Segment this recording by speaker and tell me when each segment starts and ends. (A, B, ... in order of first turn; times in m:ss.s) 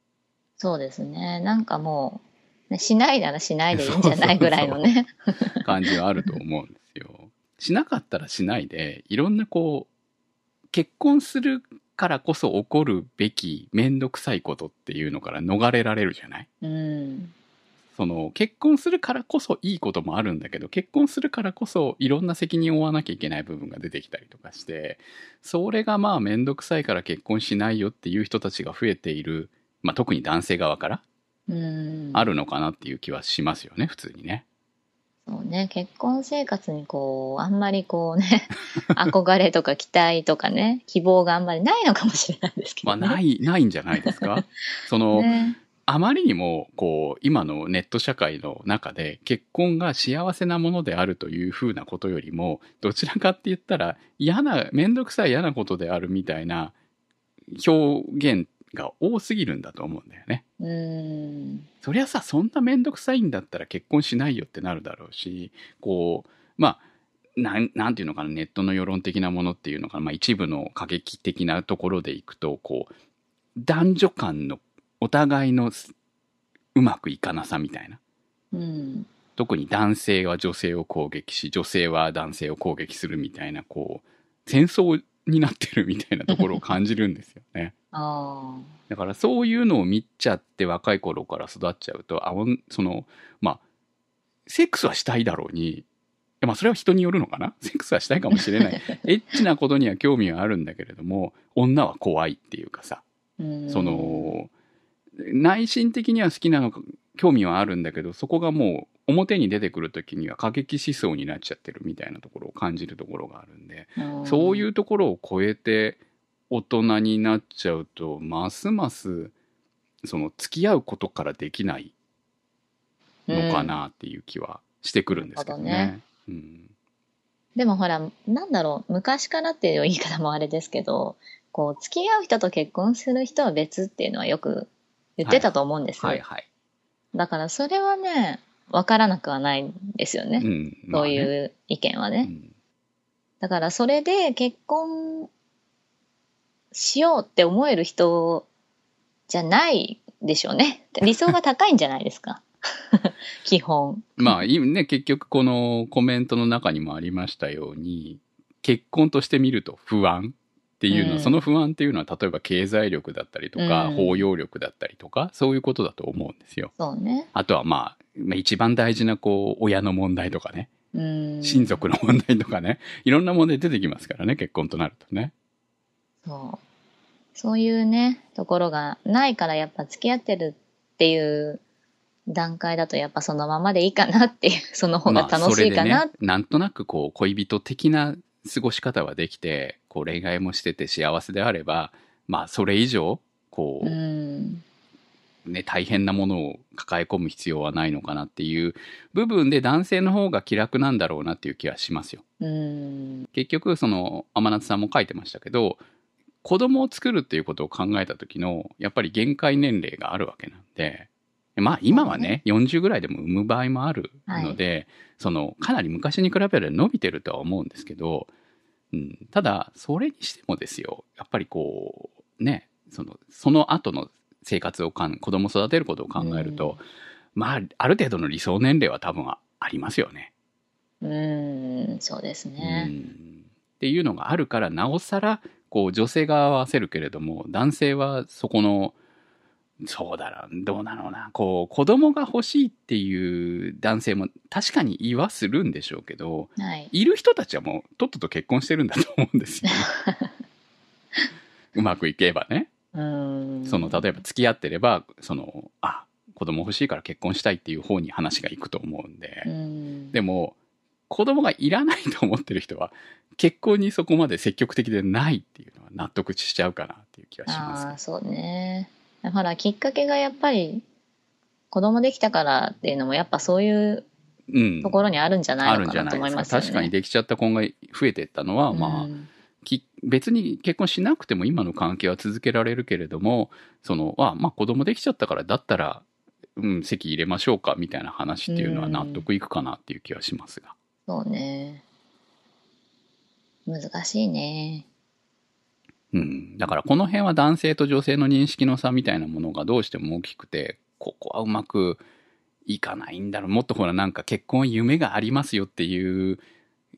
0:00.6-0:05.7 A
0:03.7-0:04.9 B
0:05.6-0:09.9 B
0:10.7-0:16.5 B
0:16.6-0:17.3 A
0:18.0-0:31.0 B
0:31.5-0:32.3 A
0:32.1-0:34.4 B
0:35.3-0:43.2 A
0:42.8-0:56.7 B
0:44.0-0:44.4 A
0:45.1-0:45.6 A
0:57.5-1:00.4 B
1:00.6-1:01.7 A
1:01.8-1:06.8 B
1:07.4-1:12.9 B
1:13.6-1:15.9 B
1:16.8-1:18.0 B
1:18.5-1:19.1 A
1:19.4-1:27.7 B
1:26.3-1:26.6 A
1:27.9-1:28.7 A
1:28.9-1:33.6 B
1:34.5-1:35.8 B
1:36.4-1:43.0 B
1:38.6-1:39.0 A
1:43.4-1:44.3 A
1:43.7-1:44.5 B
1:45.2-1:59.3 B
1:54.0-1:54.6 A
2:00.0-2:01.9 B
2:03.3-2:03.8 A
2:03.3-2:06.7 B
2:05.1-2:05.9 A
2:07.6-2:16.2 A
2:15.2-2:16.4 B
2:17.1-2:22.3 A
2:20.4-2:21.3 B
2:23.4-2:25.3 A
2:26.7-2:28.5 A
2:29.3-2:34.4 A
2:34.2-2:46.7 B
2:40.9-2:41.5 A
2:43.6-2:44.3 A
2:46.8-2:47.3 A
2:47.3-2:50.7 B
2:50.9-2:51.8 A
2:51.4-2:55.3 B
2:56.2-2:56.6 A
2:57.4-3:01.6 A
3:02.3-3:06.1 A
3:05.1-3:14.0 B
3:13.8-3:14.6 A
3:15.5-3:22.2 B
3:22.4-3:23.3 A
3:23.3-3:25.8 B
3:26.4-3:38.3 B
3:31.9-3:32.4 A
3:34.3-3:34.6 A
3:38.9-3:46.8 B
3:46.2-3:46.8 A
3:47.4-3:50.3 B
3:51.0-3:52.9 A
3:52.6-3:59.0 B
3:59.8-4:09.9 B
4:06.6-4:06.9 A
4:09.7-4:10.3 A
4:11.7-4:12.7 B
4:12.9-4:14.1 A
4:13.7-4:19.5 B
4:19.4-4:20.2 A
4:20.1-4:20.6 B
4:21.1-4:28.0 B
4:27.5-4:30.8 A
4:31.7-4:34.1 A
4:34.5-4:35.0 B
4:34.8-4:36.9 A
4:35.6-4:39.1 B
4:38.7-4:39.3 A
4:39.6-4:46.0 B
4:46.6-4:50.8 B
4:48.5-4:49.2 A
4:51.1-4:51.8 A
4:53.7-4:54.9 A
4:56.1-5:02.0 B
5:02.7-5:06.4 B